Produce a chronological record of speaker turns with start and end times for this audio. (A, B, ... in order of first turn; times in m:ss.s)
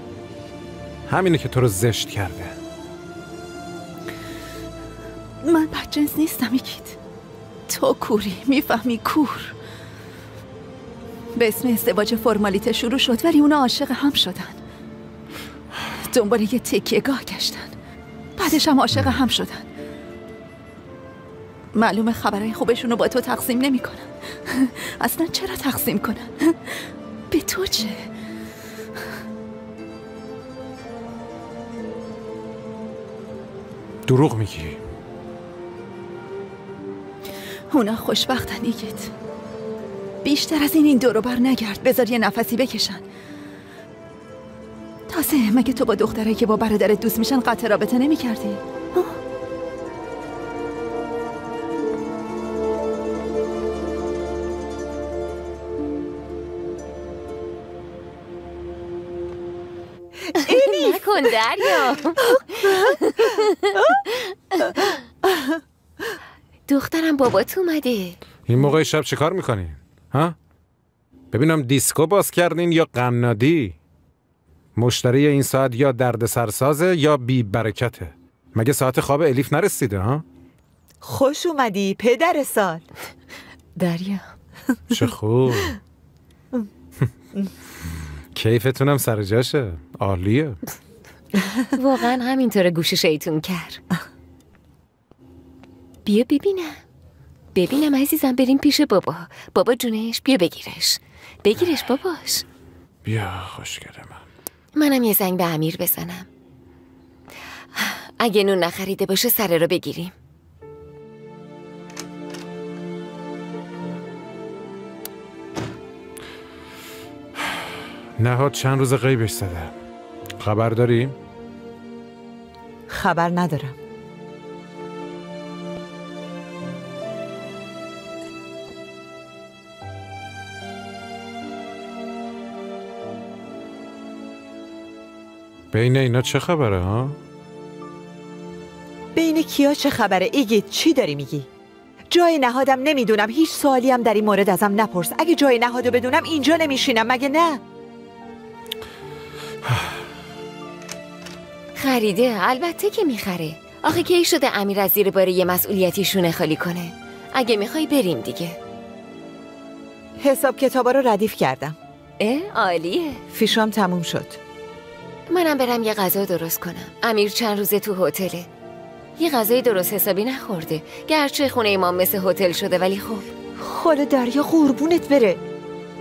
0:01.1-0:02.5 A
0:05.4-0:07.0 B
0:07.7-0:09.5 B
0:11.4-0:14.6 B
0:16.0-0:17.7 B
0:18.4-0:19.6 B
0:21.7-0:26.8 B
0:27.3-0:28.1 B
0:34.1-0:34.8 A
0:37.7-0:39.1 B
0:40.2-0:43.0 B
0:45.1-0:49.2 B
1:00.4-1:01.0 C
1:00.5-1:03.5 D
1:02.4-1:03.0 C
1:06.7-1:08.2 D
1:08.5-1:10.3 A
1:11.3-1:13.8 A
1:14.8-1:20.2 A
1:21.0-1:22.8 C
1:23.8-1:24.2 D
1:24.9-1:25.8 A
1:28.3-1:30.6 A
1:31.7-1:33.8 D
1:36.0-1:36.8 D
1:37.5-1:42.4 D
1:43.0-1:44.2 A
1:44.7-1:46.2 D
1:47.8-1:50.1 D
1:58.2-1:59.7 A
2:00.4-2:01.1 A
2:02.9-2:03.7 C
2:15.7-2:17.2 A
2:19.1-2:21.5 C
2:22.1-2:27.6 C
2:31.8-2:38.6 D
2:40.2-2:41.8 C
2:42.2-2:43.2 D
2:43.3-2:44.4 C
2:45.3-2:48.5 D
2:49.2-2:53.3 D
2:53.6-2:55.4 C